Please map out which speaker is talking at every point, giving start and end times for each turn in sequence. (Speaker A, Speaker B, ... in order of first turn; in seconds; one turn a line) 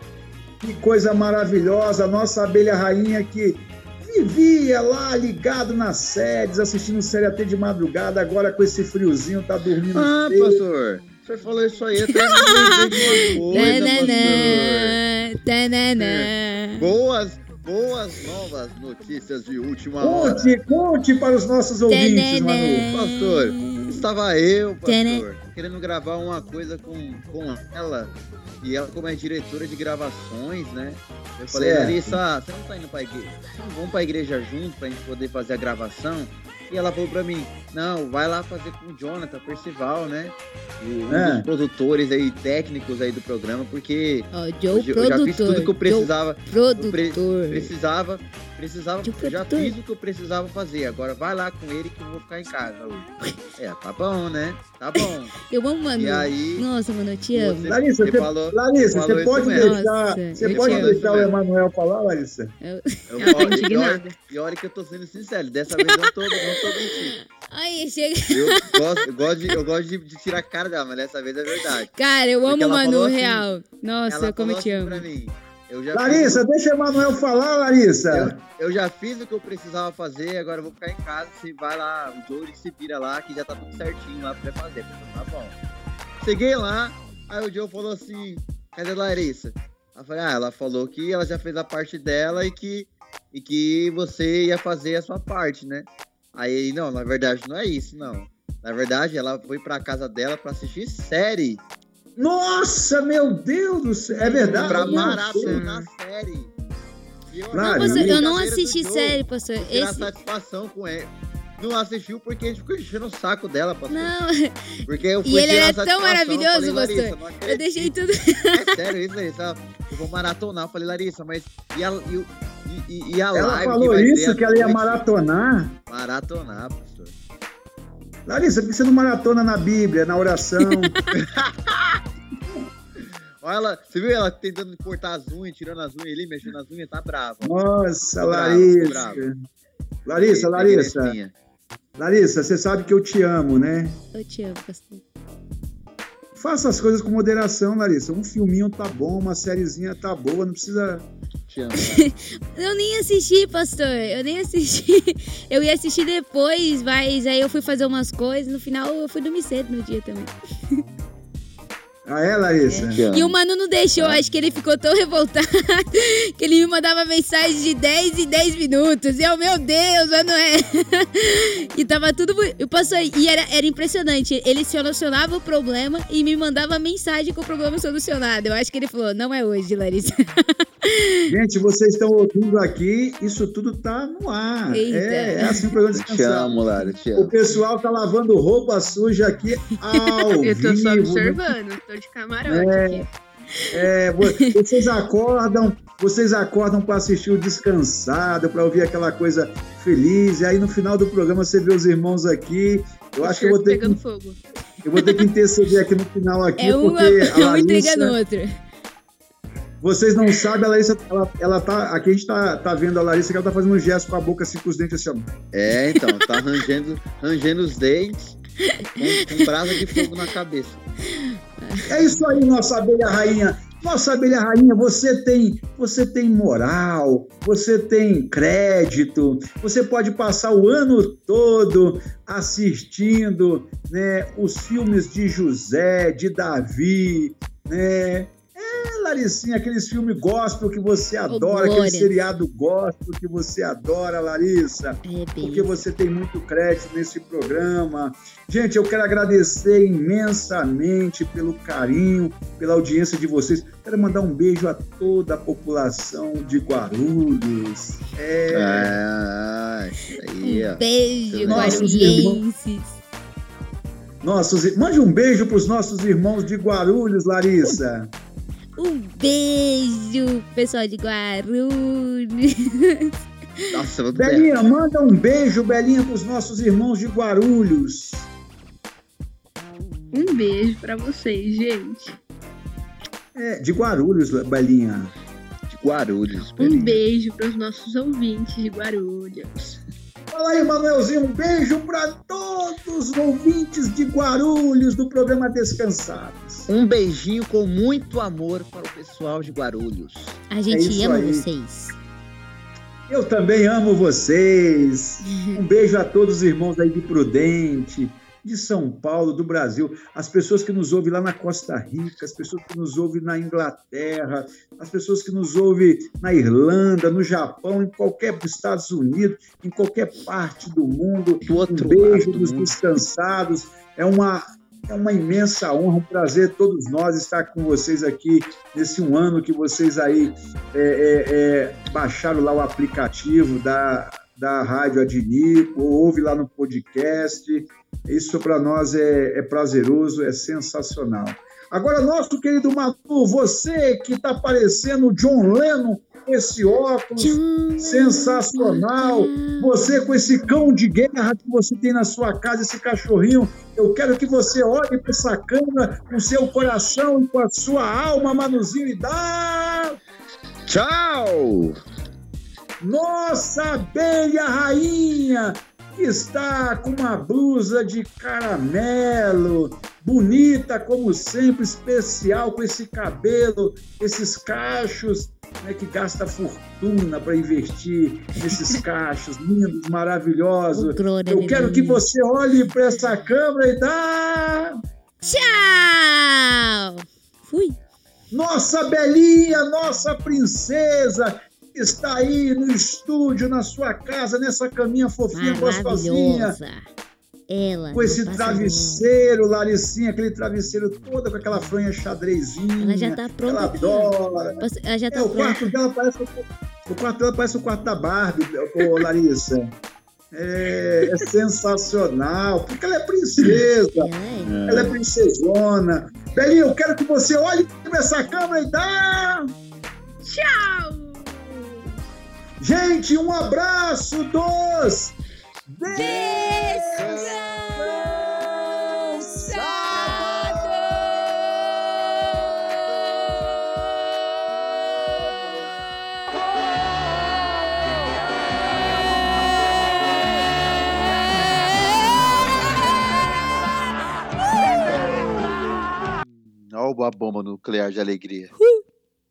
Speaker A: 0.6-10.6
Speaker B: 9.9-15.0
Speaker C: 12.1-16.9
Speaker B: 15.9-20.5
Speaker A: 20.0-22.9
Speaker C: 21.9-24.0
Speaker B: 22.9-55.3
Speaker C: 24.8-25.2
Speaker A: 31.5-32.2
Speaker A: 41.1-41.5
Speaker C: 44.3-47.7
Speaker C: 49.0-49.7
Speaker C: 55.4-57.7
Speaker B: 56.0-56.7
Speaker B: 57.3-59.8
Speaker A: 57.6-62.5
Speaker C: 59.5-61.0
Speaker B: 60.4-61.3
Speaker C: 62.6-64.1
Speaker B: 63.1-67.2
Speaker D: 63.2-64.0
Speaker C: 65.7-68.8
Speaker B: 68.3-71.9
Speaker C: 71.9-75.0
Speaker B: 72.4-73.5
Speaker B: 74.1-76.4
Speaker A: 75.9-78.4
Speaker B: 78.1-85.6
Speaker B: 86.2-101.6
Speaker A: 102.2-105.6
Speaker C: 104.1-105.8
Speaker B: 104.5-106.5
Speaker B: 107.3-114.1
Speaker A: 107.5-108.2
Speaker C: 107.6-110.1
Speaker C: 113.9-114.5
Speaker B: 114.8-117.9
Speaker C: 115.2-118.4
Speaker B: 118.5-125.0
Speaker A: 123.3-125.8
Speaker B: 125.9-127.1
Speaker A: 128.2-131.1
Speaker B: 133.4-137.6
Speaker A: 137.4-139.3
Speaker B: 138.2-139.2
Speaker A: 140.1-141.2
Speaker B: 140.2-141.3
Speaker A: 142.0-144.0
Speaker C: 144.1-145.0
Speaker A: 146.3-151.1
Speaker B: 151.5-152.2
Speaker C: 151.8-160.3
Speaker A: 162.1-163.0
Speaker C: 162.7-181.1
Speaker B: 162.9-163.4
Speaker A: 181.3-186.6
Speaker C: 184.7-185.7
Speaker B: 185.9-187.3
Speaker A: 187.1-191.4
Speaker D: 190.4-193.1
Speaker A: 192.5-193.0
Speaker A: 193.7-204.0
Speaker D: 203.2-204.4
Speaker A: 204.8-208.2
Speaker C: 205.0-205.2
Speaker C: 206.6-208.5
Speaker A: 209.8-215.3
Speaker B: 215.5-218.4
Speaker C: 215.9-216.3
Speaker B: 219.0-220.8
Speaker C: 219.0-219.4
Speaker C: 221.6-222.2
Speaker A: 221.8-258.9
Speaker C: 241.3-242.1
Speaker C: 245.0-245.8
Speaker B: 258.5-262.2
Speaker C: 260.4-262.9
Speaker A: 261.4-262.4
Speaker A: 264.2-268.1
Speaker C: 268.8-273.1
Speaker B: 273.7-274.6
Speaker A: 274.1-278.3
Speaker D: 280.1-282.1
Speaker A: 283.3-285.1
Speaker B: 285.7-287.0
Speaker D: 286.6-289.8
Speaker A: 290.3-296.7
Speaker B: 296.7-300.4
Speaker C: 300.5-301.9
Speaker A: 300.7-301.5
Speaker A: 303.1-360.0
Speaker C: 305.2-305.6
Speaker B: 321.4-322.8
Speaker C: 347.2-350.7
Speaker B: 360.7-361.8
Speaker A: 362.8-384.7
Speaker C: 380.7-382.1
Speaker C: 385.2-387.8
Speaker A: 388.3-396.6
Speaker C: 395.3-396.9
Speaker C: 397.5-399.1
Speaker A: 397.9-409.6
Speaker C: 402.8-405.7
Speaker A: 410.3-414.1
Speaker C: 413.8-414.6
Speaker B: 414.4-414.9
Speaker A: 414.6-419.5
Speaker D: 420.2-421.6
Speaker A: 422.6-425.1
Speaker A: 425.7-430.8
Speaker C: 425.9-428.2
Speaker C: 428.9-430.8
Speaker B: 446.7-448.5